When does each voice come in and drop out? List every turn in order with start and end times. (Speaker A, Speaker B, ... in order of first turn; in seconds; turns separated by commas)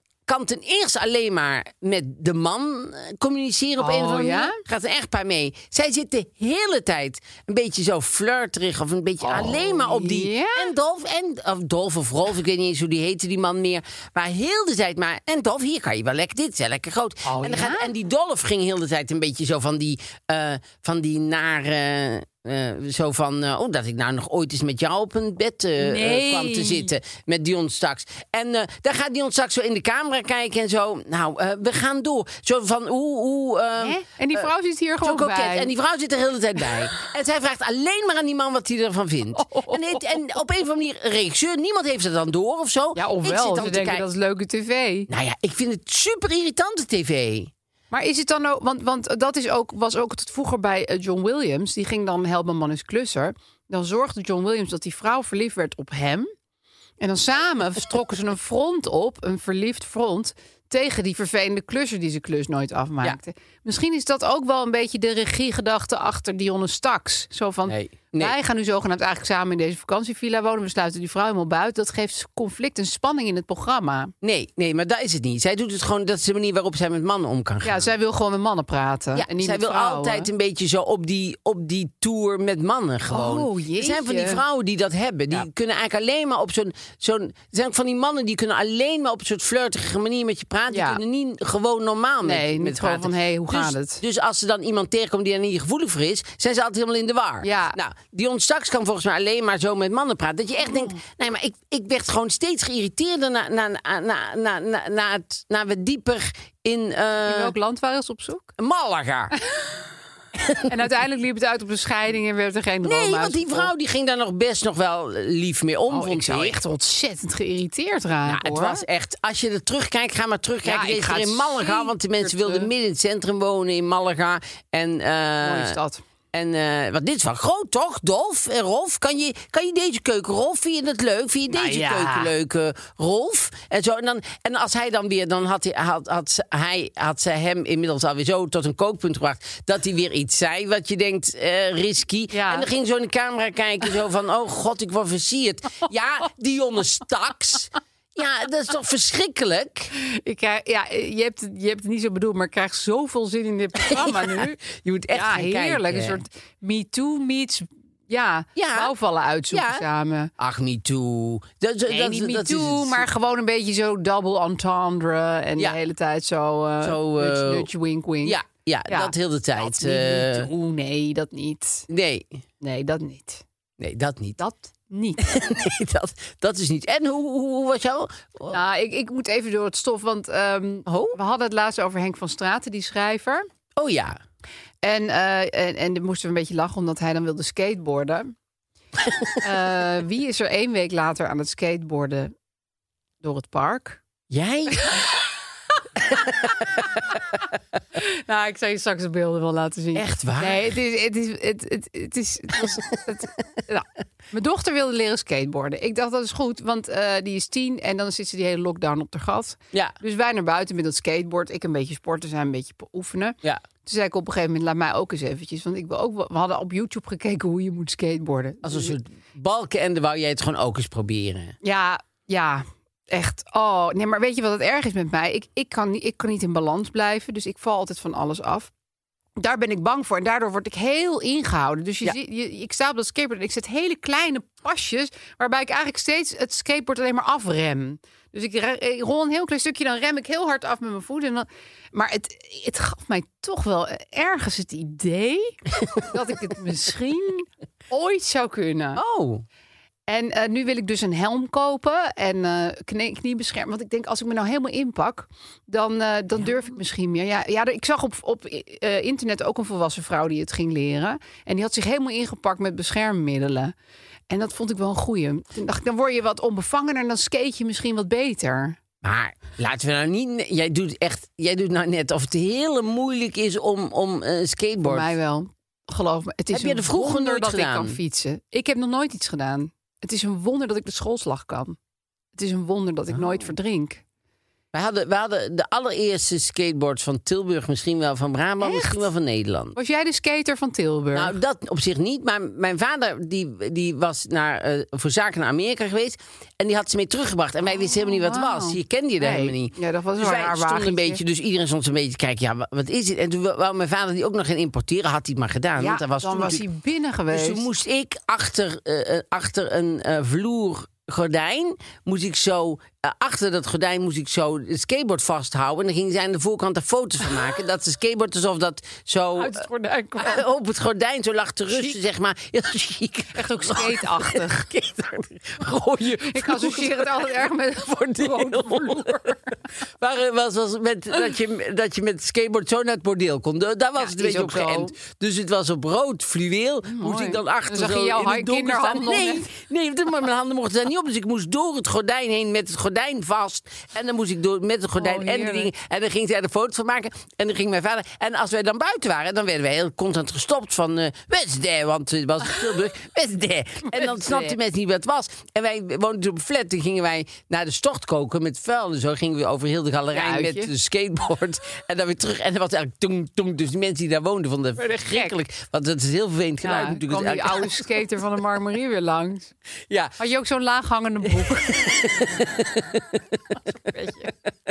Speaker A: 0.3-44.0, Speaker B: 3.8-4.6, Speaker B: 9.2-10.7, Speaker B: 17.2-17.9, Speaker B: 25.8-26.9, Speaker B: 33.8-35.7, Speaker B: 39.4-40.1, Speaker B: 43.0-45.1, Speaker A: 45.1-47.5, Speaker B: 47.9-56.3, Speaker B: 57.0-74.1, Speaker A: 67.7-68.3, Speaker A: 74.2-77.9, Speaker B: 77.6-80.3, Speaker A: 79.1-107.5, Speaker B: 83.1-84.4, Speaker B: 90.7-91.0, Speaker B: 92.2-94.0, Speaker B: 97.4-97.8, Speaker B: 100.7-101.0, Speaker B: 107.2-108.5, Speaker A: 108.6-109.3, Speaker A: 110.3-110.8, Speaker B: 110.7-113.7, Speaker A: 112.8-116.6, Speaker B: 115.9-118.8, Speaker A: 118.3-125.8, Speaker B: 120.6-122.7, Speaker B: 125.4-126.0, Speaker A: 126.3-149.9, Speaker B: 131.5-132.3, Speaker B: 142.3-142.7, Speaker B: 149.9-160.3, Speaker A: 153.8-156.2, Speaker A: 158.6-158.9, Speaker A: 159.5-159.8, Speaker A: 160.4-163.1, Speaker B: 161.9-171.9, Speaker A: 166.8-167.7, Speaker A: 168.2-170.5, Speaker A: 171.9-172.4, Speaker B: 172.6-173.4, Speaker A: 173.8-174.4, Speaker B: 174.4-175.2, Speaker A: 175.2-178.6, Speaker B: 178.5-183.5, Speaker A: 180.9-181.2, Speaker A: 183.8-184.2, Speaker B: 184.8-188.3, Speaker B: 189.4-192.3, Speaker B: 193.2-194.0, Speaker A: 194.3-195.1, Speaker A: 196.1-197.0, Speaker B: 198.0-219.0, Speaker A: 199.9-200.7, Speaker A: 218.6-221.6, Speaker B: 221.6-228.7, Speaker B: 229.4-249.0, Speaker A: 248.9-249.4, Speaker B: 250.1-263.7, Speaker B: 264.3-268.8, Speaker A: 269.0-275.1, Speaker B: 274.8-281.8, Speaker A: 276.5-278.0, Speaker B: 282.4-284.0, Speaker A: 284.7-289.8, Speaker B: 288.6-289.1, Speaker B: 289.8-291.4, Speaker A: 291.1-306.6, Speaker B: 297.7-301.2, Speaker B: 305.8-307.7, Speaker A: 307.3-319.7, Speaker B: 319.4-320.5, Speaker A: 320.2-367.9, Speaker B: 321.7-322.0, Speaker B: 323.3-324.6, Speaker B: 326.2-329.6, Speaker B: 334.0-334.9, Speaker B: 336.9-339.5, Speaker B: 345.0-345.7, Speaker B: 353.9-354.6, Speaker B: 360.1-360.7, Speaker B: 364.8-365.4, Speaker B: 366.6-369.5, Speaker A: 369.9-370.1, Speaker B: 370.2-371.8, Speaker A: 371.2-373.6, Speaker B: 373.8-374.3